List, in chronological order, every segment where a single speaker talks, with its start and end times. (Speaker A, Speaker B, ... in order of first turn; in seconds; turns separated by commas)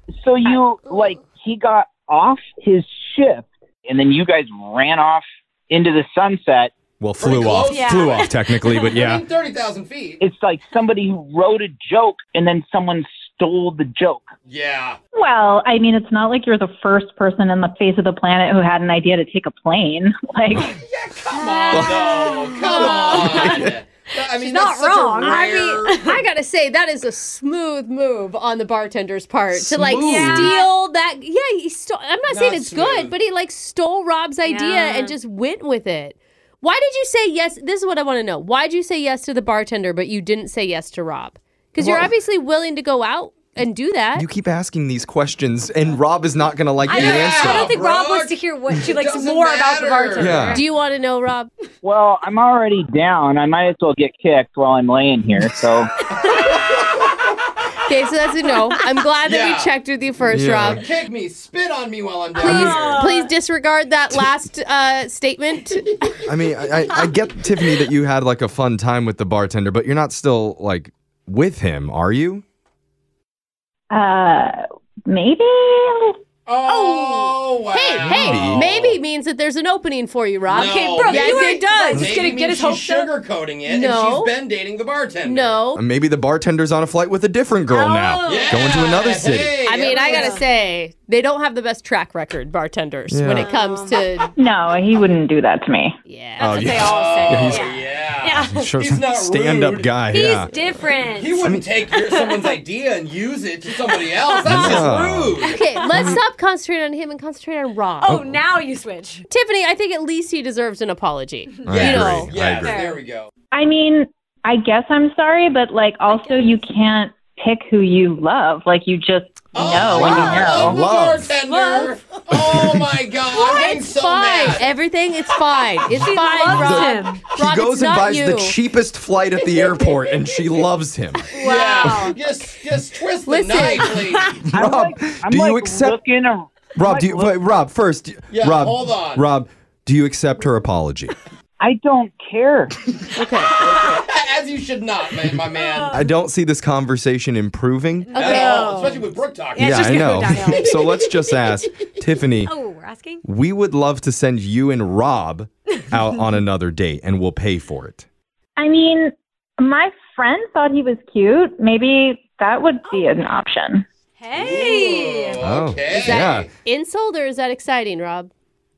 Speaker A: 0.2-6.7, Speaker B: 7.0-9.3, Speaker C: 7.2-10.2, Speaker D: 7.7-9.0, Speaker A: 10.2-14.3, Speaker C: 14.5-15.0, Speaker E: 15.1-20.6, Speaker C: 20.5-26.2, Speaker D: 21.3-23.7, Speaker B: 21.7-22.0, Speaker F: 22.7-23.0, Speaker B: 23.1-23.4, Speaker D: 24.2-26.1, Speaker F: 25.2-44.3, Speaker B: 29.7-30.5, Speaker C: 29.7-30.5, Speaker D: 30.0-30.7, Speaker C: 32.3-33.1, Speaker D: 34.4-35.1, Speaker B: 41.8-42.1, Speaker B: 44.1-47.7, Speaker D: 46.9-50.6, Speaker C: 46.9-50.4, Speaker B: 50.2-50.6, Speaker F: 50.5-51.5, Speaker A: 51.8-55.9, Speaker C: 56.2-57.2, Speaker F: 57.8-60.8, Speaker C: 59.2-59.7, Speaker B: 60.3-60.8, Speaker C: 60.6-63.1, Speaker F: 62.4-66.1, Speaker D: 62.4-63.3, Speaker B: 66.2-72.4, Speaker E: 73.9-76.2, Speaker C: 76.5-79.0, Speaker D: 76.7-77.4, Speaker F: 77.7-82.1, Speaker B: 78.0-78.7, Speaker C: 80.5-85.6, Speaker D: 80.6-83.1, Speaker F: 83.6-84.3, Speaker F: 85.2-85.8, Speaker B: 85.7-89.6, Speaker D: 87.7-88.7, Speaker C: 88.2-90.4, Speaker F: 89.6-94.3, Speaker D: 89.9-90.4, Speaker B: 93.1-93.5, Speaker D: 93.3-94.0, Speaker E: 94.4-95.9, Speaker F: 96.1-96.6, Speaker D: 96.4-98.7, Speaker B: 96.4-97.7, Speaker C: 96.7-100.1, Speaker B: 98.5-100.5, Speaker D: 100.1-101.5, Speaker C: 101.0-105.6, Speaker B: 101.4-101.7, Speaker D: 102.0-102.5, Speaker D: 103.9-106.1, Speaker B: 104.4-105.4, Speaker F: 105.4-108.2, Speaker B: 105.9-106.2, Speaker D: 108.0-109.2, Speaker B: 108.0-108.4, Speaker F: 109.3-112.3, Speaker B: 111.7-112.8, Speaker C: 111.7-113.3, Speaker D: 112.6-113.0, Speaker E: 113.5-120.5, Speaker D: 116.1-116.6, Speaker C: 119.5-124.7, Speaker B: 119.8-121.3, Speaker D: 121.4-122.2, Speaker B: 122.3-122.9, Speaker F: 123.3-128.6, Speaker D: 125.9-127.2, Speaker B: 126.5-131.3, Speaker C: 131.3-134.4, Speaker D: 131.3-132.2, Speaker F: 133.2-133.9, Speaker D: 133.9-134.3, Speaker B: 134.4-136.0, Speaker A: 134.5-137.4, Speaker B: 136.8-141.1, Speaker C: 138.3-139.3, Speaker A: 141.6-142.8, Speaker F: 143.2-143.5, Speaker C: 143.5-146.0, Speaker D: 145.5-146.0, Speaker B: 145.9-148.2, Speaker D: 148.1-151.2, Speaker F: 148.1-148.9, Speaker C: 148.1-150.6, Speaker B: 149.6-152.5, Speaker D: 152.4-153.2, Speaker B: 153.2-158.1, Speaker E: 158.6-163.8, Speaker D: 164.2-165.4, Speaker C: 164.3-166.5, Speaker B: 165.4-166.5, Speaker F: 165.9-168.3